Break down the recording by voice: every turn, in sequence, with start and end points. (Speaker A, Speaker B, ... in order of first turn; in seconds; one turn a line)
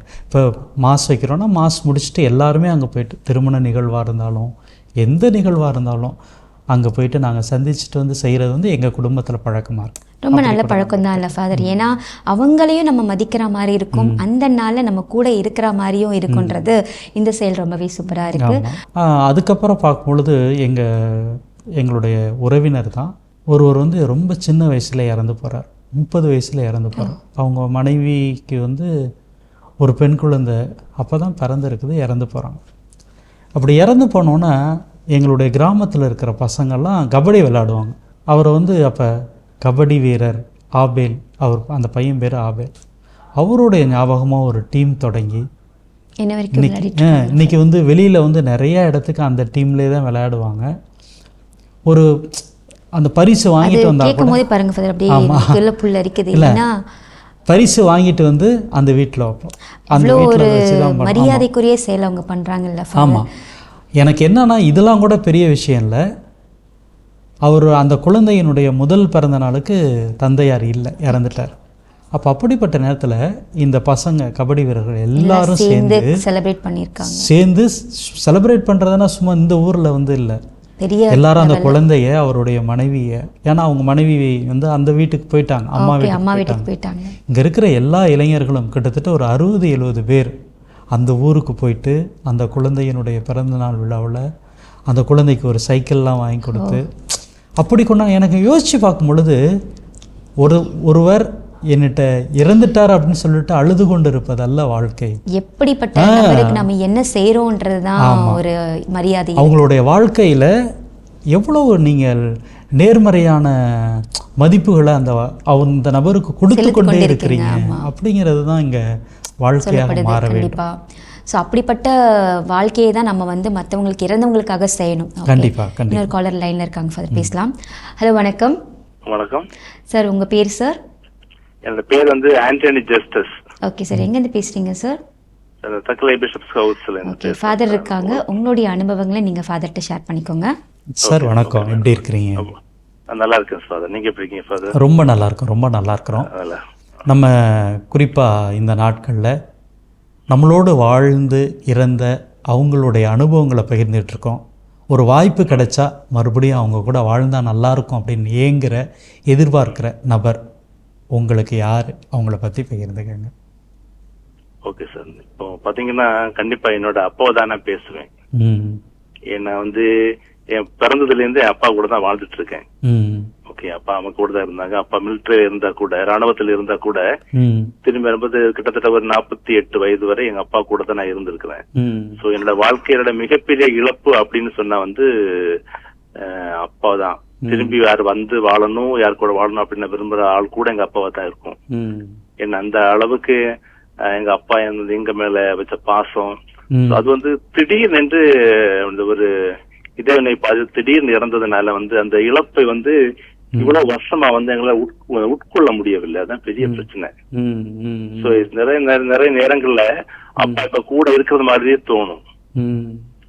Speaker A: 0.3-6.2
Speaker A: 6.7-11.7
Speaker B: 10.2-18.6
Speaker A: 13.9-14.2
Speaker A: 16.3-16.6
Speaker A: 18.4-28.9
Speaker A: 29.8-32.6
Speaker A: 33.6-34.5
Speaker A: 35.1-42.7
Speaker A: 43.4-45.4
Speaker B: 46.2-47.6
Speaker A: 46.5-50.7
Speaker A: 51.9-52.5
Speaker A: 53.0-54.4
Speaker B: 53.6-56.7
Speaker A: 55.1-55.6
Speaker A: 56.3-56.6
Speaker A: 57.5-61.5
Speaker B: 59.9-63.2
Speaker A: 63.0-63.3
Speaker A: 64.0-66.0
Speaker A: 67.5-71.5
Speaker A: 72.1-76.2
Speaker B: 75.2-77.3
Speaker A: 77.0-80.4
Speaker B: 80.8-81.8
Speaker A: 81.1-86.7
Speaker B: 85.8-87.2
Speaker A: 87.3-90.3
Speaker A: 90.9-94.2
Speaker A: 94.9-97.0
Speaker B: 96.5-96.8
Speaker A: 97.6-99.4
Speaker A: 100.4-105.2
Speaker B: 105.4-109.5
Speaker A: 106.0-106.7
Speaker A: 108.0-108.4
Speaker A: 109.4-110.5
Speaker A: 111.3-112.2
Speaker A: 112.8-118.8
Speaker B: 116.5-117.9
Speaker A: 119.4-120.6
Speaker B: 119.6-120.8
Speaker B: 121.3-121.9
Speaker B: 122.5-128.6
Speaker A: 125.3-126.1
Speaker C: 129.1-129.5
Speaker B: 129.9-130.8
Speaker C: 131.7-133.3
Speaker B: 133.7-135.0
Speaker C: 135.6-138.2
Speaker B: 137.1-140.5
Speaker A: 140.9-142.5
Speaker C: 141.0-142.6
Speaker C: 143.1-144.8
Speaker A: 144.8-146.3
Speaker C: 146.2-146.6
Speaker A: 147.1-149.3
Speaker A: 150.3-160.4
Speaker A: 161.2-163.3
Speaker C: 164.7-168.1
Speaker A: 168.4-168.8
Speaker C: 169.3-169.9
Speaker C: 170.6-172.7
Speaker A: 172.8-173.3
Speaker C: 173.5-177.0
Speaker A: 177.4-177.7
Speaker C: 177.8-181.6
Speaker A: 181.8-182.2
Speaker C: 182.2-185.6
Speaker C: 186.2-191.6
Speaker A: 187.4-187.8
Speaker A: 191.7-192.2
Speaker C: 192.4-193.4
Speaker C: 194.1-196.4
Speaker A: 196.7-197.1
Speaker C: 196.9-199.3
Speaker C: 200.0-203.0
Speaker C: 203.6-207.1
Speaker A: 206.6-208.5
Speaker C: 208.2-209.9
Speaker C: 210.4-212.2
Speaker A: 210.4-210.7
Speaker A: 212.6-213.0